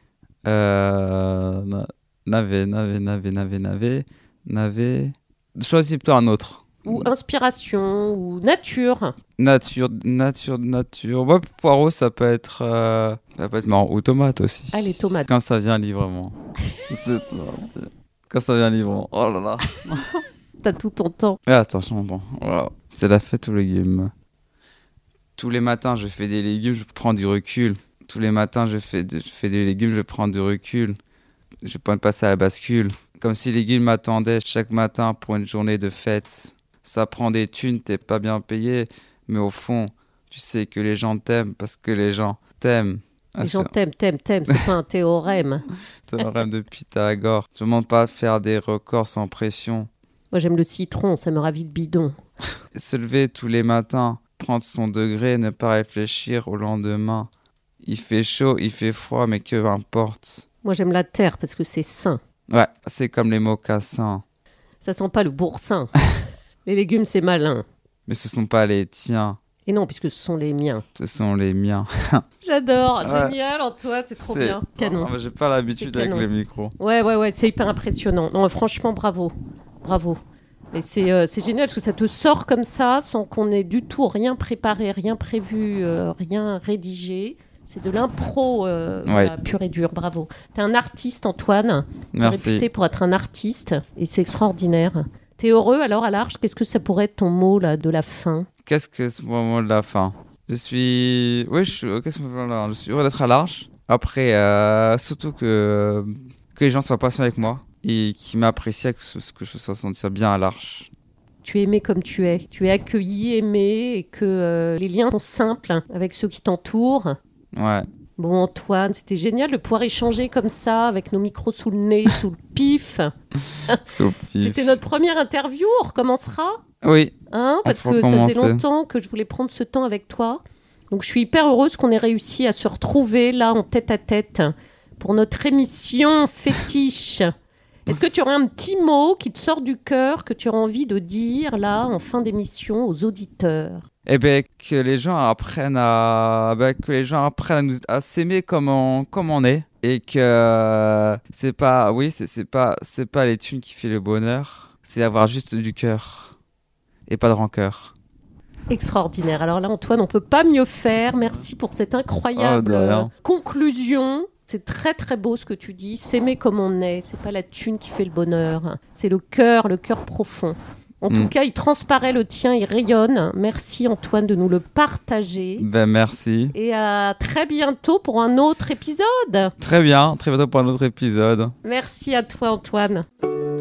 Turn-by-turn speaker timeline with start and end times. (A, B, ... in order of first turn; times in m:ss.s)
0:00.4-0:07.1 A
0:06.8-0:09.1 B
0:09.4-0:16.3 A
0:14.7-0:15.3 B
0:16.9-0:20.2 A
0:20.6-0:21.4 B
0:21.4-0:24.1 A
0:25.4-0:31.0 A
0:31.6-0:43.7 A
0:43.4-0:45.6 B
0:46.1-0:49.9 A
0:50.3-0:52.1 B
0:52.7-0:57.3 A
0:57.8-1:00.4 A
1:00.6-1:02.2 B
1:02.5-1:04.2 A
1:04.8-1:05.9 B
1:06.6-1:07.6 B
1:08.1-1:09.4 A
1:09.6-1:10.8 B
1:11.0-1:12.2 A
1:12.4-1:15.1 B
1:13.0-1:13.4 A
1:14.2-1:16.7 A
1:15.8-1:16.3 B
1:16.8-1:20.2 B
1:20.7-1:38.5 B
1:29.0-1:29.3 A
1:32.1-1:32.7 A
1:38.6-1:50.9 A
1:51.4-1:57.2 B
1:57.5-1:57.8 A
1:58.2-2:03.1 B
2:03.8-2:04.8 A
2:04.4-2:06.6 B
2:06.8-2:07.1 A
2:07.3-2:10.4 B
2:07.6-2:08.6 A
2:10.9-2:17.3 B
2:17.8-2:23.8 B
2:24.0-2:36.3 A
2:37.1-2:37.9 A
2:38.7-2:55.6 B
2:42.3-2:43.1 A
2:55.6-2:56.5 A
2:56.5-2:59.5 B
2:59.6-3:01.5 A
3:01.6-3:03.0 B